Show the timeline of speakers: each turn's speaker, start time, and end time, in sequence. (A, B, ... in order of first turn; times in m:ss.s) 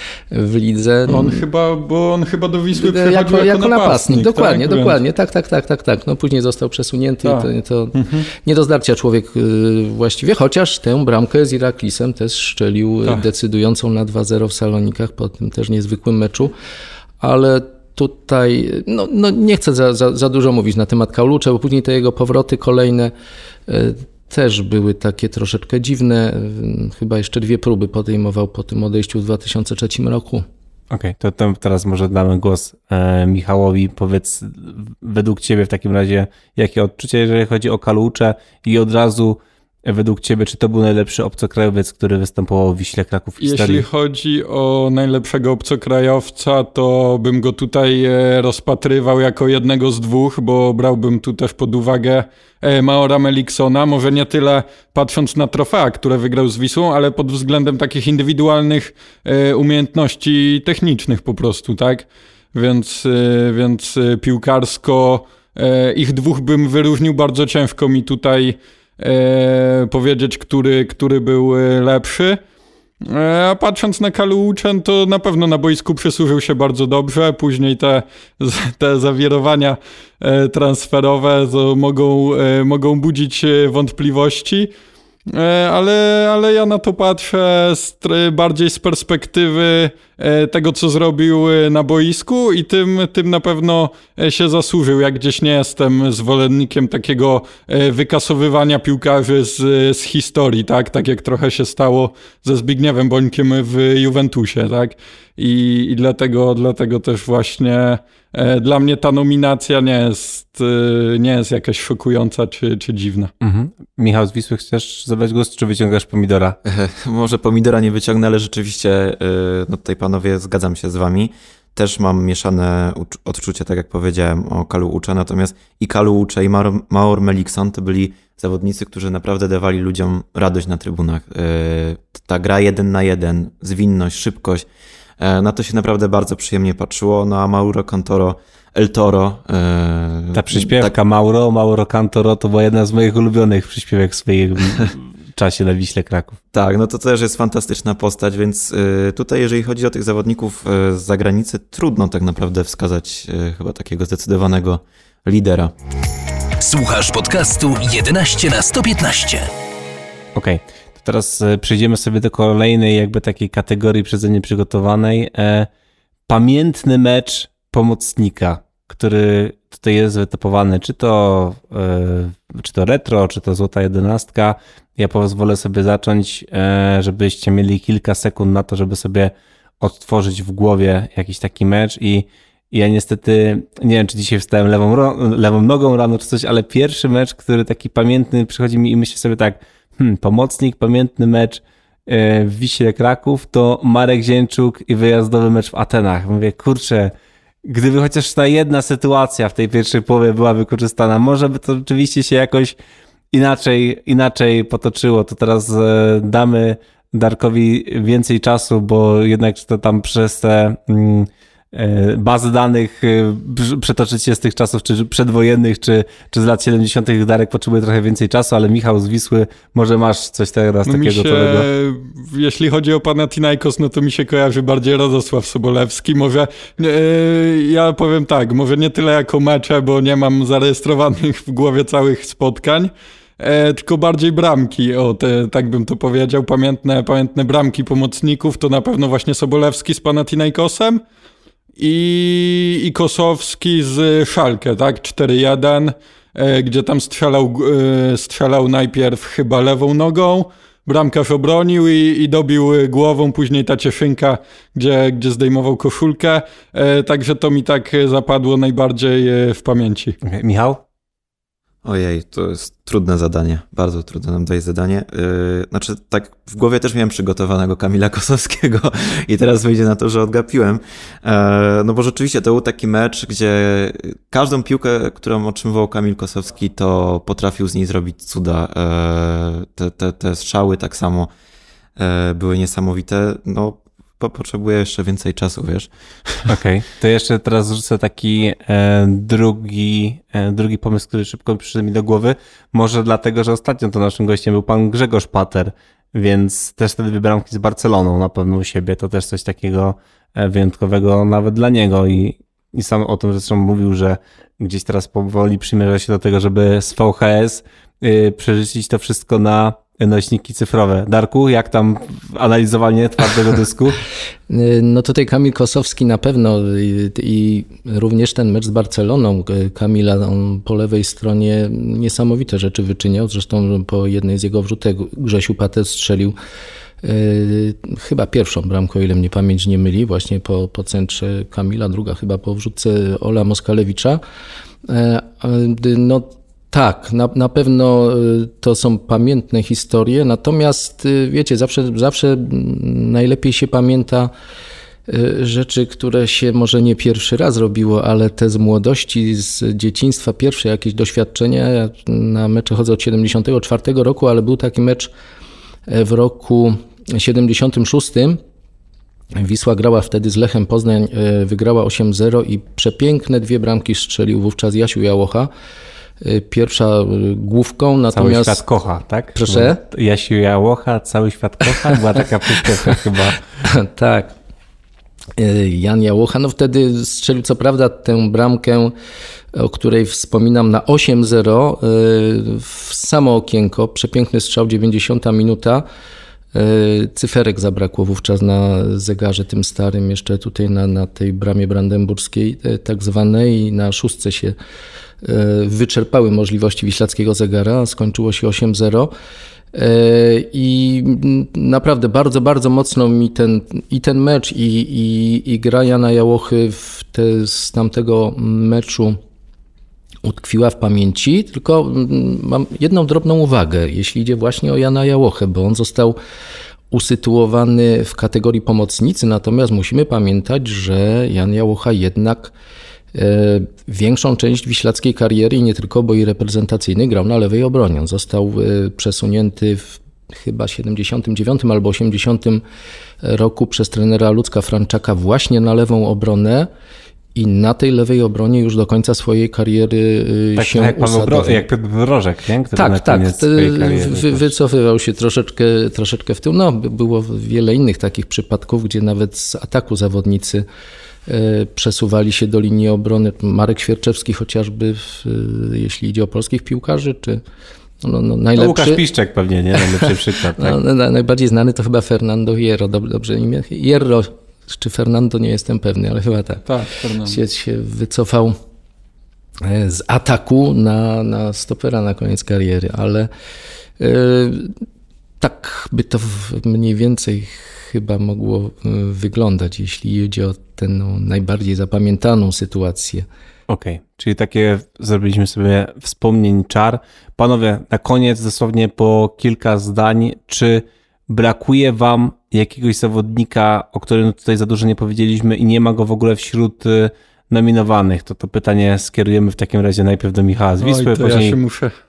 0:00.3-0:01.4 A
0:01.1-0:05.0 B
0:02.7-0:16.5 A
0:07.2-0:08.2 B
0:17.2-0:23.1 A
0:23.7-0:30.4 A
0:30.9-0:43.8 C
0:43.4-1:12.4 B
1:13.0-1:24.7 B
1:25.3-1:53.3 B
1:53.4-1:56.6 C
1:56.6-2:14.7 D
2:15.2-2:20.9 D
2:20.3-2:26.4 C
2:26.5-2:35.7 D
2:36.6-2:39.5 E
2:40.3-2:45.7 C
2:46.3-3:17.1 C
3:17.6-3:22.8 C
3:23.3-3:41.7 C
3:40.9-4:01.0 B
4:01.8-4:20.2 B
4:20.2-4:20.8 C
4:21.8-4:41.3 D
4:42.0-4:46.5 D
4:46.5-5:14.0 C
5:14.5-5:26.4 A
5:27.0-5:34.2 A
5:34.9-5:44.3 A
5:45.1-5:55.1 A
5:55.9-5:58.4 A
5:59.4-6:05.5 A
6:06.2-6:08.6 A
6:08.1-6:13.4 C
6:09.4-6:09.8 A
6:13.6-6:14.3 A
6:15.4-6:18.9 A
6:19.5-6:25.8 A
6:26.5-6:34.6 A
6:35.2-6:39.1 A
6:39.7-6:49.2 A
6:50.2-6:56.2 A
6:56.9-7:02.5 A
7:03.1-7:12.6 A
7:13.2-7:16.7 A
7:17.4-7:21.6 A
7:20.6-7:24.5 C
7:22.7-7:30.6 A
7:31.3-7:37.4 A
7:38.0-7:39.0 A
7:38.5-7:40.8 C
7:39.8-7:48.5 A
7:46.7-7:47.4 B
7:49.6-7:53.3 A
7:54.0-7:54.7 A
7:55.4-8:03.2 A
8:03.7-8:21.6 C
8:20.8-8:21.9 B